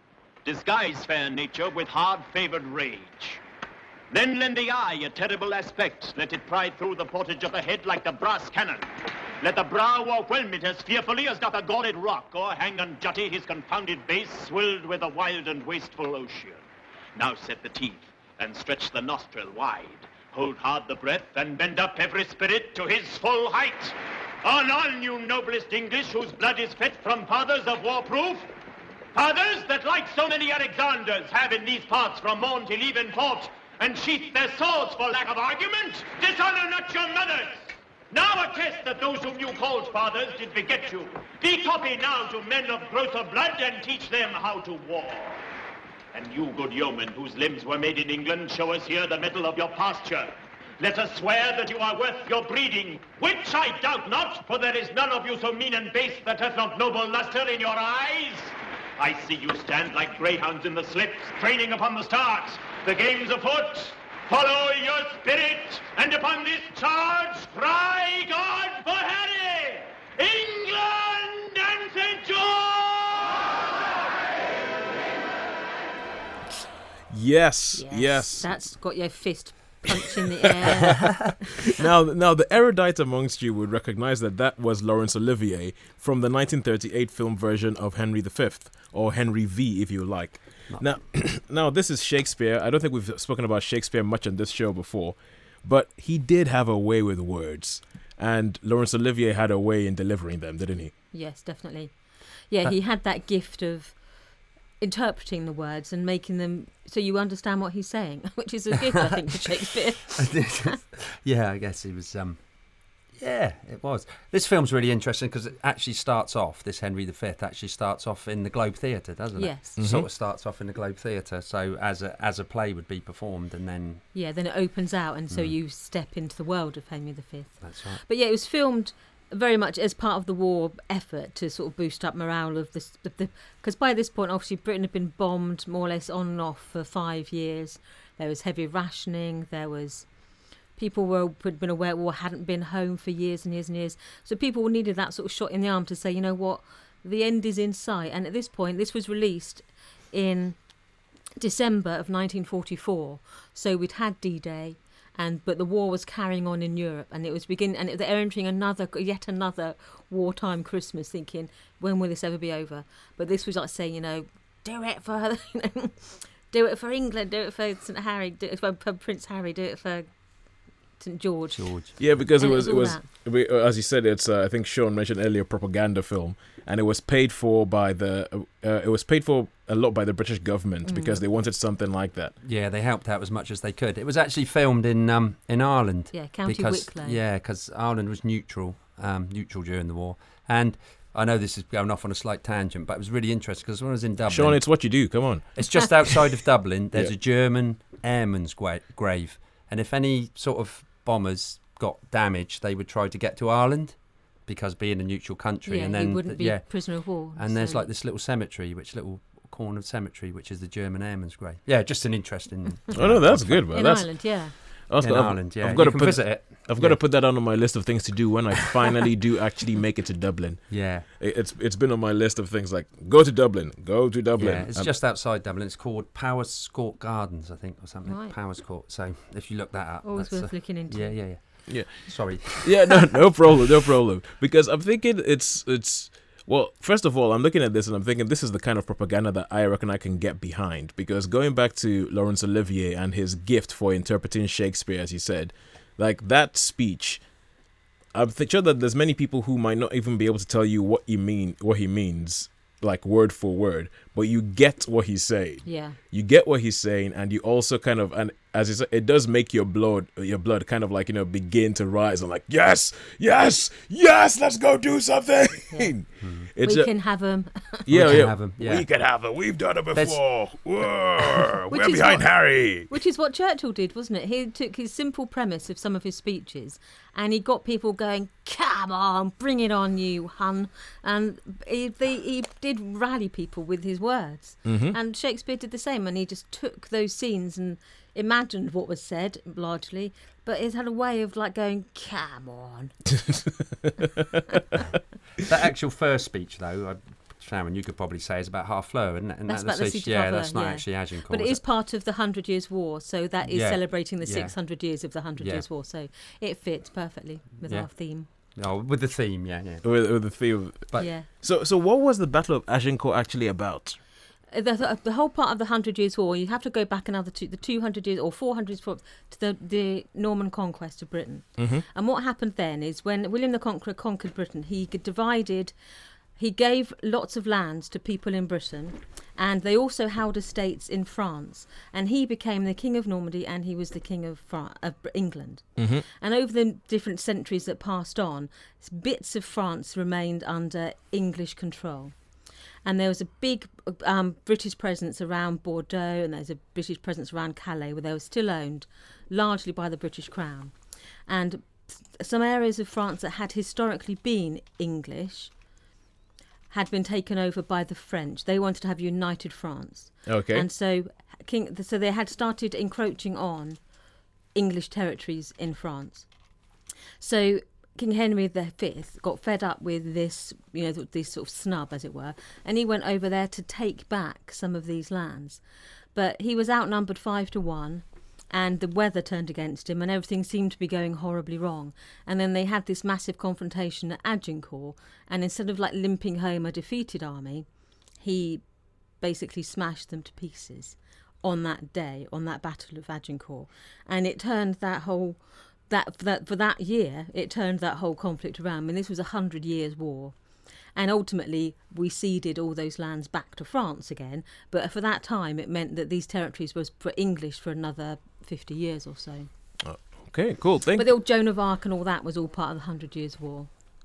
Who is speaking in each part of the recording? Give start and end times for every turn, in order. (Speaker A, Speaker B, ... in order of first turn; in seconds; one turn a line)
Speaker A: 0.4-3.4
Speaker A: 4.1-16.6
Speaker A: 17.1-28.5
Speaker A: 29.1-45.4
Speaker A: 46.1-73.4
Speaker B: 77.1-78.5
Speaker C: 77.8-81.7
Speaker B: 81.7-100.9
Speaker C: 101.1-102.0
Speaker C: 102.5-104.0
Speaker C: 104.8-110.8
Speaker D: 110.2-112.4
Speaker D: 113.1-124.0
Speaker C: 119.4-119.8
Speaker B: 119.8-120.0
Speaker C: 124.1-140.1
Speaker D: 125.3-125.5
Speaker D: 127.6-128.0
Speaker C: 140.8-150.6
Speaker C: 151.4-173.0
Speaker D: 171.5-172.0
Speaker B: 172.0-182.3
Speaker C: 180.8-181.2
Speaker D: 182.4-213.8
Speaker C: 186.1-187.2
Speaker B: 194.3-196.1
Speaker C: 205.7-207.9
Speaker B: 212.9-224.9
Speaker C: 213.7-214.8
Speaker D: 215.0-217.0
Speaker D: 220.7-221.1
Speaker D: 224.4-233.1
Speaker C: 228.0-228.3
Speaker C: 230.0-231.3
Speaker B: 231.7-247.2
Speaker B: 248.1-266.9
Speaker C: 255.7-256.0
Speaker C: 265.7-267.9
Speaker D: 266.2-266.5
Speaker B: 267.9-272.9
Speaker D: 267.9-268.9
Speaker D: 269.9-270.2
Speaker C: 271.7-292.9
Speaker B: 284.6-284.9
Speaker D: 295.4-301.6
Speaker C: 299.5-308.3
Speaker D: 303.4-304.7
Speaker D: 305.4-305.6
Speaker D: 307.6-310.3
Speaker B: 309.8-314.0
Speaker C: 311.0-311.3
Speaker C: 314.5-325.7
Speaker B: 321.6-321.8
Speaker C: 326.4-342.3
Speaker B: 335.8-336.0
Speaker C: 342.8-355.5
Speaker C: 356.7-363.8
Speaker B: 360.3-360.7
Speaker C: 364.5-366.3
Speaker C: 367.2-375.6
Speaker C: 376.1-388.6
Speaker C: 389.2-400.4
Speaker C: 400.9-409.5
Speaker B: 409.8-411.1
Speaker C: 411.0-413.7